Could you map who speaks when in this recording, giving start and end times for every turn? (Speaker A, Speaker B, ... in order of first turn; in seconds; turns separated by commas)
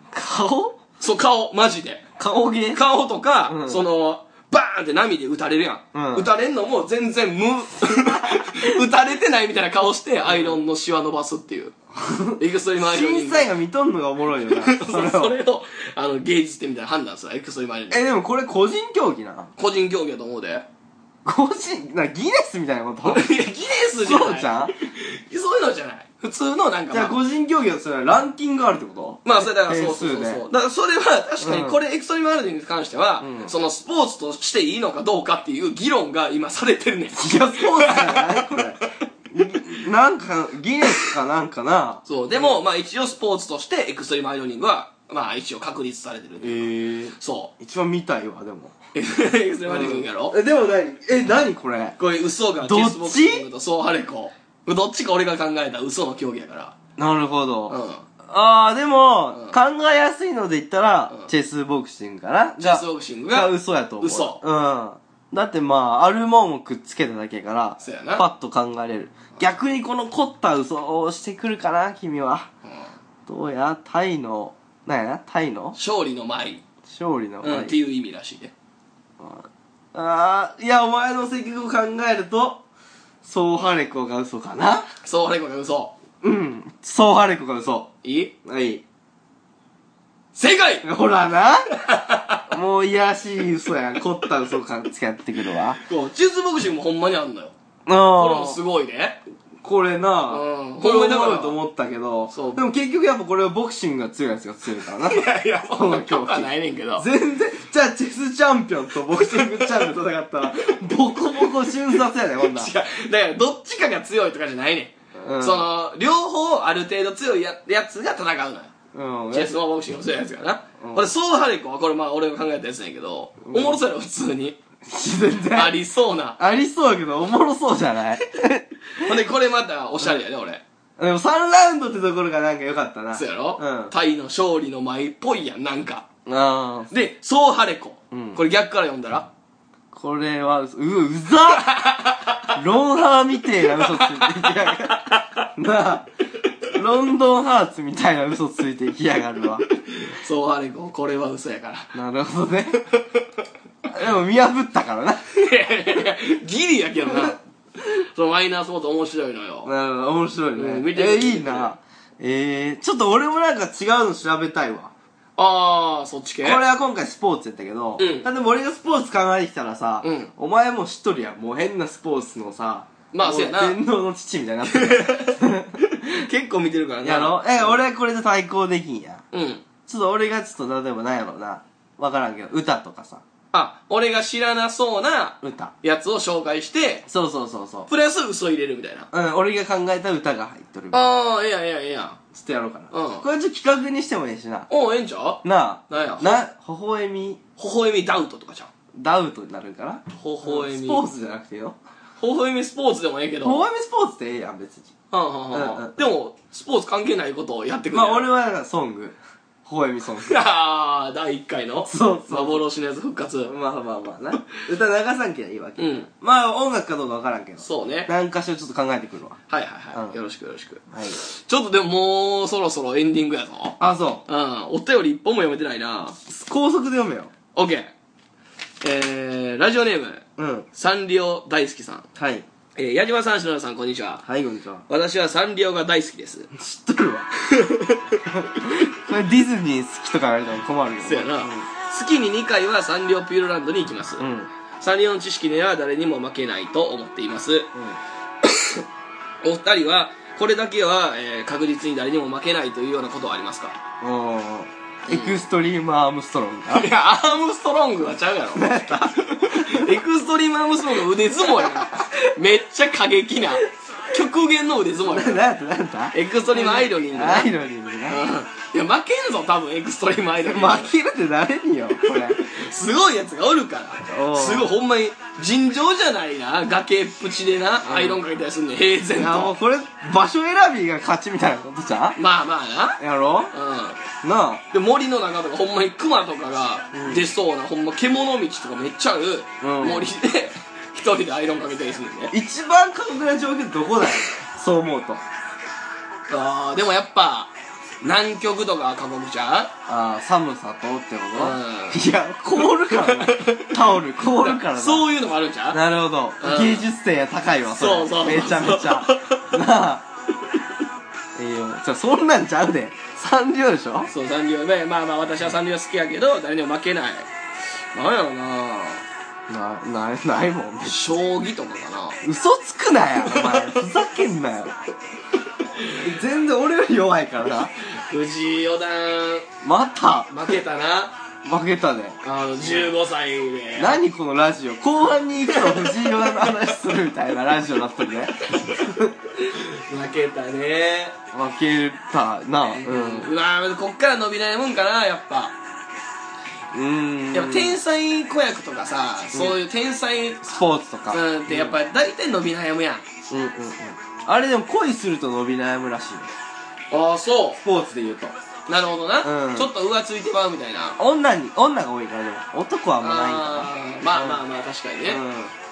Speaker A: 0.1-0.8, Speaker B: 1.0-2.0, Speaker A: 2.2-2.8, Speaker B: 2.7-11.8, Speaker A: 3.5-3.8, Speaker A: 5.9-6.3, Speaker A: 7.8-8.8, Speaker A: 10.2-10.6, Speaker A: 11.9-15.4, Speaker B: 12.4-13.5, Speaker B: 14.5-18.1, Speaker A: 17.9-19.5, Speaker B: 19.6-20.6, Speaker A: 21.2-23.3, Speaker B: 23.0-27.1, Speaker A: 24.0-24.7, Speaker A: 26.9-30.4, Speaker B: 29.2-38.9, Speaker A: 31.4-31.8, Speaker A: 33.2-33.5, Speaker A: 37.1-38.8, Speaker A: 39.3-42.6, Speaker B: 42.0-47.5, Speaker A: 46.4-48.7, Speaker B: 48.9-50.4, Speaker A: 49.6-52.0, Speaker B: 52.0-56.8, Speaker A: 52.6-53.5, Speaker A: 57.0-72.5, Speaker B: 57.7-58.0, Speaker B: 62.6-64.4, Speaker B: 67.8-68.2, Speaker A: 73.3-75.8, Speaker B: 75.8-76.6, Speaker A: 76.8-77.8, Speaker B: 77.4-78.5, Speaker A: 79.2-82.6, Speaker A: 83.2-84.9, Speaker B: 85.0-85.9, Speaker A: 86.2-87.9, Speaker B: 88.0-88.3, Speaker A: 88.4-88.8, Speaker B: 90.3-90.9, Speaker A: 90.8-91.7, Speaker B: 91.8-92.4, Speaker A: 92.5-95.8, Speaker B: 95.8-97.5, Speaker A: 97.8-98.6, Speaker B: 98.1-99.2, Speaker A: 99.6-112.7, Speaker B: 100.3-101.6, Speaker B: 102.3-102.6, Speaker B: 105.0-107.1, Speaker B: 109.1-109.8, Speaker B: 112.4-118.7, Speaker A: 115.2-115.7, Speaker A: 118.9-119.5, Speaker B: 119.3-124.6, Speaker A: 120.8-121.1, Speaker A: 123.5-123.8, Speaker A: 124.8-125.8, Speaker B: 125.5-126.4, Speaker A: 126.4-129.1, Speaker B: 128.9-130.6, Speaker A: 131.0-133.9, Speaker B: 133.1-136.1, Speaker A: 136.2-136.9, Speaker B: 136.9-139.3, Speaker A: 138.1-138.4, Speaker A: 139.9-141.7, Speaker B: 141.6-142.5, Speaker A: 142.5-146.1, Speaker B: 143.7-145.5, Speaker A: 146.7-149.7, Speaker B: 149.9-151.9, Speaker A: 151.9-152.8, Speaker A: 153.9-155.2, Speaker B: 155.3-159.7, Speaker A: 157.1-157.3, Speaker A: 159.6-164.9, Speaker B: 160.6-161.7, Speaker B: 165.3-166.6, Speaker A: 166.4-175.8, Speaker B: 168.0-168.3, Speaker B: 170.0-170.3, Speaker B: 173.1-173.8, Speaker B: 174.7-177.8, Speaker A: 177.0-179.2, Speaker B: 179.3-179.6, Speaker A: 179.8-183.2, Speaker B: 183.5-187.1, Speaker A: 185.4-185.7, Speaker A: 187.1-187.9, Speaker B: 187.9-189.1, Speaker A: 189.1-191.1, Speaker B: 190.9-192.2, Speaker A: 192.3-194.7, Speaker B: 192.9-193.2, Speaker B: 194.7-196.4, Speaker A: 195.4-197.4, Speaker B: 197.6-198.7, Speaker A: 198.9-201.8, Speaker B: 200.2-201.1, Speaker B: 202.2-203.7, Speaker A: 203.4-204.9, Speaker B: 205.1-208.3, Speaker A: 205.5-205.9, Speaker A: 207.9-210.4, Speaker B: 210.2-213.5, Speaker A: 211.8-212.6, Speaker A: 213.4-219.4, Speaker B: 215.8-216.1, Speaker B: 217.6-218.1, Speaker B: 219.5-226.2, Speaker A: 219.9-220.2, Speaker A: 220.9-221.2, Speaker A: 223.8-224.2, Speaker A: 226.3-227.3, Speaker B: 227.5-227.9, Speaker B: 228.8-232.1, Speaker A: 230.4-230.7, Speaker A: 232.2-232.4, Speaker B: 232.8-234.2, Speaker A: 234.2-234.8, Speaker B: 234.9-236.5, Speaker A: 236.5-237.3, Speaker B: 237.4-238.9, Speaker A: 238.2-241.7, Speaker B: 241.0-244.2, Speaker A: 244.2-244.5, Speaker B: 244.8-247.7, Speaker B: 248.4-248.8, Speaker B: 249.4-253.8, Speaker A: 254.0-256.9, Speaker B: 255.1-255.4, Speaker B: 256.7-265.4, Speaker A: 258.5-259.9, Speaker A: 261.4-262.0, Speaker A: 265.0-268.2, Speaker B: 266.1-267.5, Speaker B: 268.1-270.9, Speaker A: 270.4-272.4, Speaker B: 272.0-279.5, Speaker A: 274.1-274.7, Speaker A: 277.9-278.2, Speaker A: 279.1-282.2, Speaker B: 282.1-283.0, Speaker A: 283.0-283.5, Speaker B: 283.5-284.0, Speaker A: 284.2-284.6, Speaker B: 284.7-292.3, Speaker A: 286.9-287.2, Speaker A: 289.6-290.1, Speaker A: 292.3-295.2, Speaker B: 296.3-299.7, Speaker A: 299.9-305.1, Speaker B: 301.4-302.0, Speaker B: 302.6-305.8, Speaker A: 305.7-310.0, Speaker B: 306.4-306.9, Speaker B: 307.7-309.5, Speaker A: 311.4-314.1, Speaker B: 314.1-317.3, Speaker B: 317.9-319.0, Speaker A: 319.5-321.1, Speaker B: 320.8-322.2, Speaker A: 322.2-324.8, Speaker B: 323.3-323.6, Speaker A: 326.0-327.7, Speaker B: 327.8-329.5, Speaker A: 329.6-330.6, Speaker B: 330.3-331.1, Speaker A: 331.4-332.9, Speaker B: 332.2-334.0, Speaker A: 333.8-339.3, Speaker B: 335.5-336.4, Speaker B: 339.4-341.1, Speaker A: 341.3-343.3, Speaker B: 342.7-345.6, Speaker A: 346.7-347.8, Speaker B: 347.3-353.1, Speaker A: 349.3-349.6, Speaker A: 350.4-351.8, Speaker A: 353.3-356.3, Speaker B: 356.9-357.6, Speaker A: 357.6-358.4, Speaker B: 358.7-361.0, Speaker A: 359.2-359.7, Speaker A: 361.0-364.4, Speaker B: 363.0-365.2, Speaker A: 365.0-365.5